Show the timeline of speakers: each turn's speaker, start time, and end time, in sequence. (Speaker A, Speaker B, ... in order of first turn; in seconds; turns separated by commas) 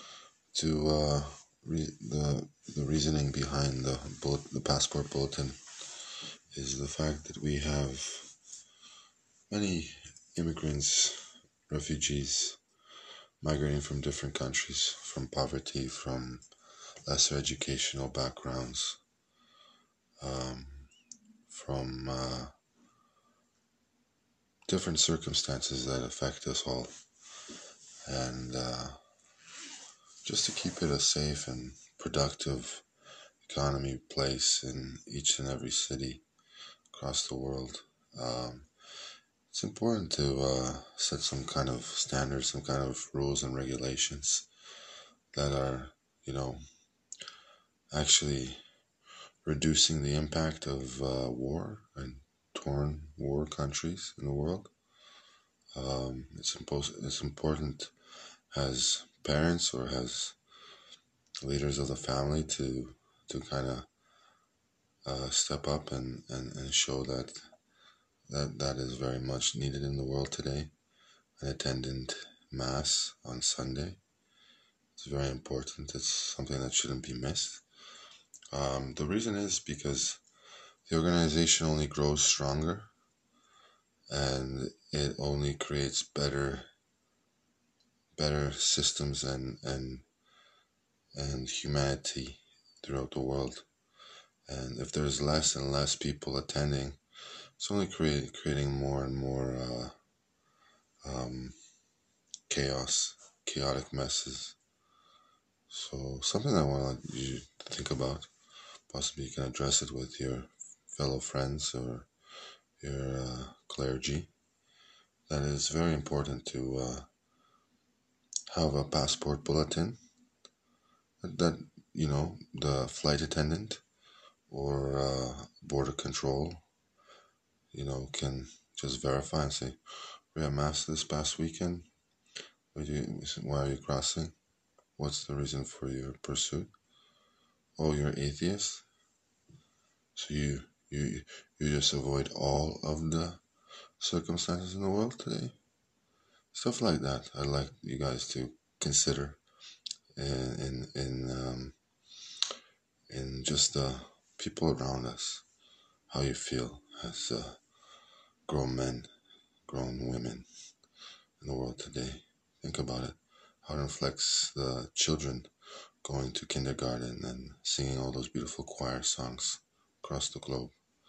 Speaker A: 0.5-8.3, Speaker A: 9.5-12.6, Speaker A: 13.4-16.4, Speaker A: 17.0-19.0, Speaker A: 20.2-20.9, Speaker A: 21.5-22.5, Speaker A: 24.7-27.0, Speaker A: 28.1-29.0, Speaker A: 30.2-32.9, Speaker A: 33.4-36.2, Speaker A: 36.9-38.7, Speaker A: 39.5-44.5, Speaker A: 45.3-46.6, Speaker A: 47.9-48.6, Speaker A: 49.4-54.7, Speaker A: 55.7-57.9, Speaker A: 58.5-60.4, Speaker A: 61.4-63.9, Speaker A: 65.0-67.4, Speaker A: 68.3-70.7, Speaker A: 71.4-74.0, Speaker A: 75.0-77.6, Speaker A: 78.5-80.2, Speaker A: 80.9-82.9, Speaker A: 84.1-86.7, Speaker A: 88.2-90.0, Speaker A: 91.1-93.7, Speaker A: 94.5-97.0, Speaker A: 97.6-100.0, Speaker A: 101.0-101.5, Speaker A: 102.5-104.6, Speaker A: 105.7-108.3, Speaker A: 108.9-112.1, Speaker A: 112.8-114.3, Speaker A: 115.3-117.1, Speaker A: 118.5-120.0, Speaker A: 121.2-123.8, Speaker A: 124.5-126.6, Speaker A: 127.7-131.9, Speaker A: 132.7-134.3, Speaker A: 135.0-136.7, Speaker A: 137.8-138.8, Speaker A: 140.2-143.4, Speaker A: 144.0-145.6, Speaker A: 146.5-149.4, Speaker A: 150.2-151.8, Speaker A: 153.1-155.4, Speaker A: 156.1-157.6, Speaker A: 158.5-159.1, Speaker A: 159.7-160.5, Speaker A: 161.4-165.5, Speaker A: 166.0-170.8